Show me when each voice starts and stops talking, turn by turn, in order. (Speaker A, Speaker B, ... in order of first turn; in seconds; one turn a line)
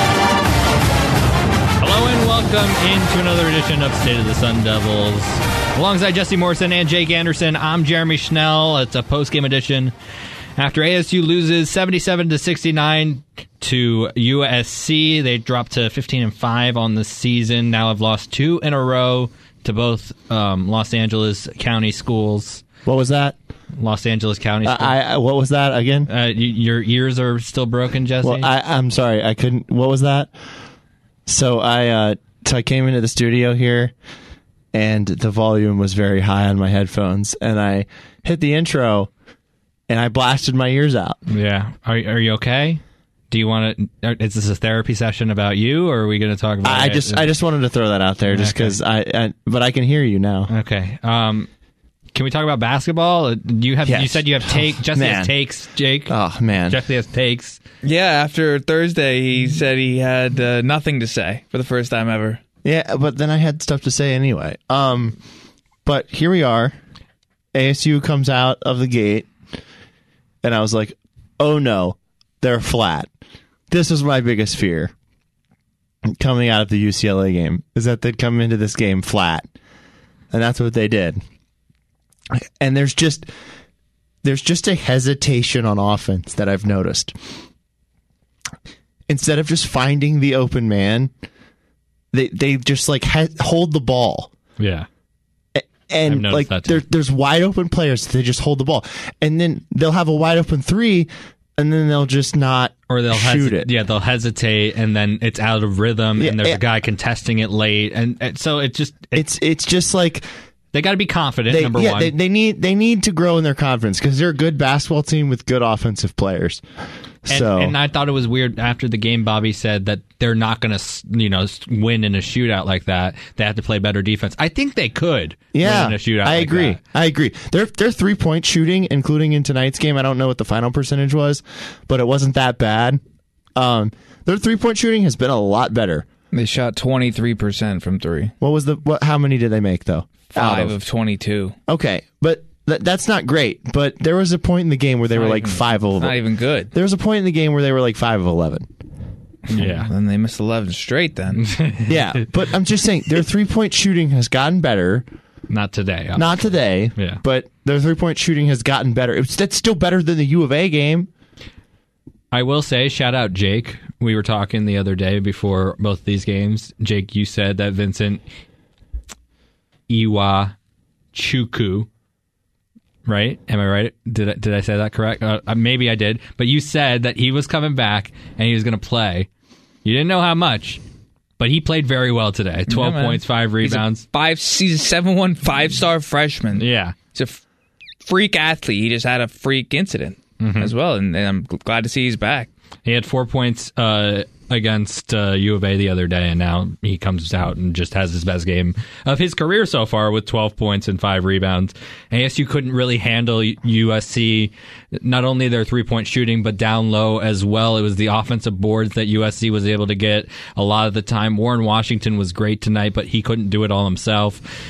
Speaker A: 1.8-9.9
Speaker A: 10.6-22.6
Speaker B: 22.9-23.4
Speaker A: 23.8-24.9
Speaker B: 24.6-26.1
Speaker A: 26.1-28.5
Speaker B: 28.2-30.3
Speaker B: 31.2-33.9
Speaker B: 34.7-39.1
Speaker B: 39.9-41.2
Speaker A: 41.3-47.3
Speaker B: 46.6-50.5
Speaker A: 48.2-48.8
Speaker A: 50.5-51.5
Speaker A: 52.1-57.6
Speaker B: 53.8-55.3
Speaker B: 56.0-56.8
Speaker C: 57.8-62.4
Speaker B: 62.6-65.2
Speaker B: 65.8-66.7
Speaker B: 67.5-69.3
Speaker B: 70.4-73.1
Speaker B: 73.7-74.9
Speaker B: 76.2-79.4
Speaker B: 80.3-81.2
Speaker B: 82.3-83.3
Speaker B: 84.2-87.1
Speaker B: 89.1-91.1
Speaker B: 92.1-94.3
Speaker A: 94.6-94.9
Speaker B: 95.5-103.7
Speaker A: 96.0-96.8
Speaker A: 102.9-109.2
Speaker B: 106.2-106.6
Speaker B: 109.1-110.2
Speaker A: 110.7-112.1
Speaker B: 111.5-116.6
Speaker B: 117.2-117.8
Speaker A: 117.3-126.8
Speaker B: 125.5-133.0
Speaker B: 133.6-136.1
Speaker C: 136.3-138.3
Speaker B: 138.4-140.8
Speaker C: 140.3-141.5
Speaker B: 141.7-148.7
Speaker C: 145.1-146.7
Speaker A: 149.5-149.9
Speaker C: 149.5-151.5
Speaker A: 151.4-152.2
Speaker B: 151.9-155.1
Speaker A: 155.5-157.2
Speaker B: 156.2-161.1
Speaker A: 162.3-168.2
Speaker A: 169.9-170.6
Speaker A: 171.1-171.9
Speaker A: 173.1-179.3
Speaker A: 179.8-180.8
Speaker A: 181.4-184.0
Speaker C: 182.7-187.4
Speaker A: 186.5-186.9
Speaker C: 188.0-192.5
Speaker A: 190.4-190.7
Speaker A: 192.8-214.4